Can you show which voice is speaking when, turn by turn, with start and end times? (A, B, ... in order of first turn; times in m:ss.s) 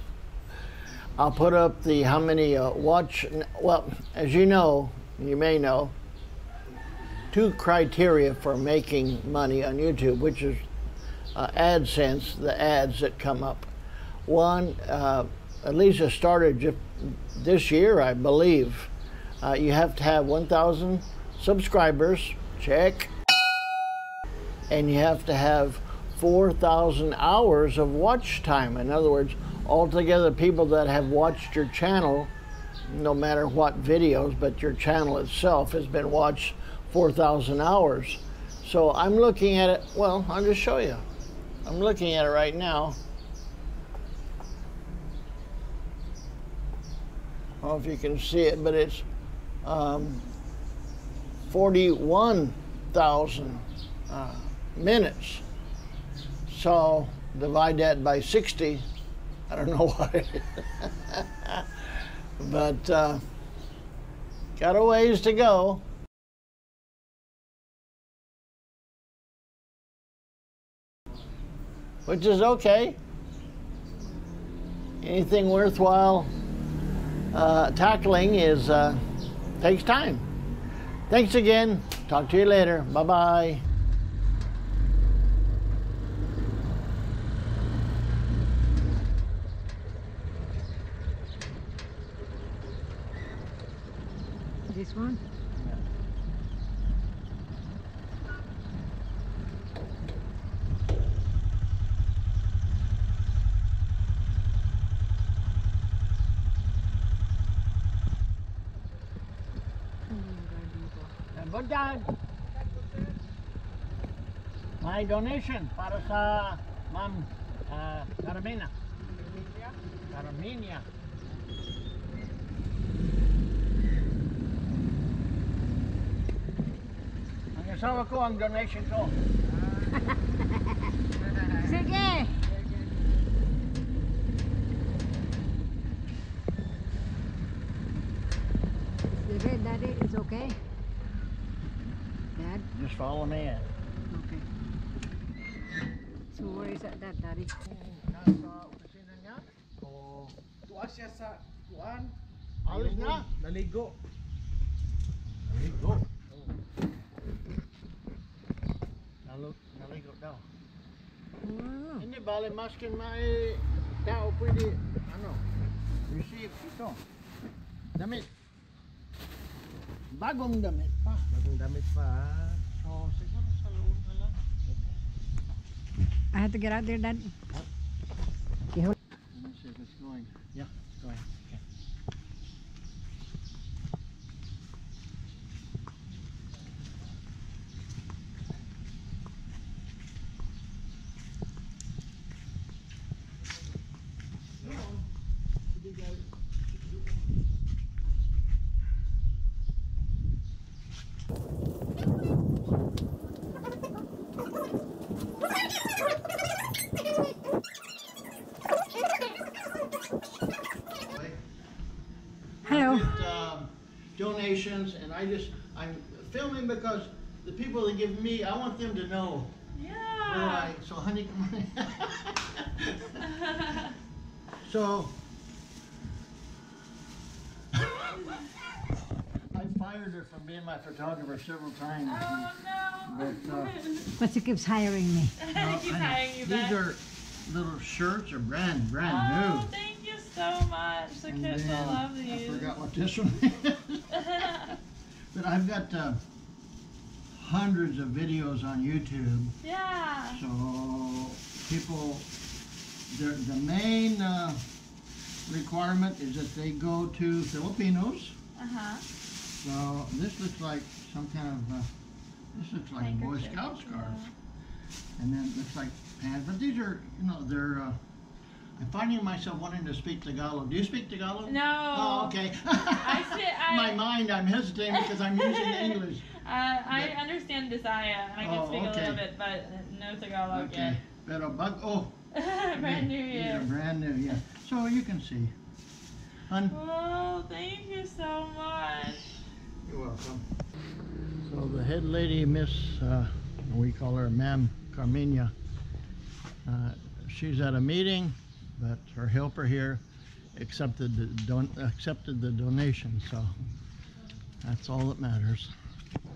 0:01.2-0:05.9 A
0:07.3-0:10.6 A
0:11.4-0:13.7 A
0:14.3-0:23.1 A
0:24.7-0:32.3 A
0:32.9-0:41.0 A
0:41.6-0:43.0 A
0:47.6-0:49.1 A
0:49.6-0:50.3 A
0:51.5-0:55.4 A
0:56.5-0:58.8 A
0:59.5-1:01.9 A
1:02.4-1:03.2 A
1:04.6-1:05.8 A
1:12.1-1:13.0 A
1:15.0-1:16.3 A
1:17.3-1:19.0 A
1:19.6-1:20.3 A
1:21.1-1:23.6 A
1:34.7-1:35.2 B
1:35.6-1:35.8 A
1:50.1-1:51.1 B
1:51.3-1:52.1 A
1:54.8-1:58.7 A
1:59.4-1:59.7 C
2:00.1-2:00.9 A
2:07.5-2:09.2 A
2:10.1-2:10.7 B
2:11.6-2:12.5 B
2:19.1-2:20.6 B
2:22.4-2:22.7 B
2:22.7-2:23.7 A
2:24.1-2:24.4 B
2:26.3-2:27.6 B
2:27.6-2:30.4 A
2:30.7-2:32.1 C
2:32.6-2:33.3 A
2:32.7-2:34.0 C
2:35.5-2:36.1 A
2:39.2-2:40.4 A
2:41.4-2:42.1 B
2:42.0-2:45.4 A
2:46.1-2:47.0 A
2:48.0-2:48.3 A
2:50.1-2:51.4 A
2:51.4-2:52.5 C
2:52.6-2:54.4 A
2:56.3-2:57.3 B
2:59.3-3:01.6 A
3:31.0-3:31.4 A
3:32.6-3:39.5 A
3:32.7-3:33.1 B
3:39.8-3:40.7 D
3:40.2-3:43.3 A
3:43.3-3:43.9 D
3:44.6-3:45.2 A
3:47.9-3:48.2 A
3:49.5-3:52.5 A
3:52.1-3:54.1 D
3:53.0-3:53.8 A
3:54.2-3:55.3 B
3:55.4-3:56.8 D
3:55.5-3:59.7 A
3:59.0-4:02.7 D
4:01.3-4:04.7 A
4:04.2-4:04.7 D
4:05.3-4:06.2 A
4:07.4-4:09.6 A
4:09.6-4:10.4 D
4:10.3-4:12.3 A
4:13.1-4:14.6 A
4:15.5-4:18.4 A
4:18.6-4:19.0 D
4:19.6-4:21.9 A
4:22.6-4:24.2 A
4:22.9-4:24.3 D
4:25.2-4:28.0 A
4:28.8-4:36.3 A
4:31.4-4:34.0 D
4:34.9-4:41.0 D
4:38.4-4:39.2 A
4:40.5-4:42.2 A
4:42.3-4:43.7 D
4:42.8-4:45.5 A
4:46.5-4:46.8 A
4:46.7-4:49.3 D
4:49.8-4:50.4 A
4:51.4-4:55.5 A
4:56.7-5:00.0 A
5:00.6-5:03.5 A
5:04.6-5:05.7 A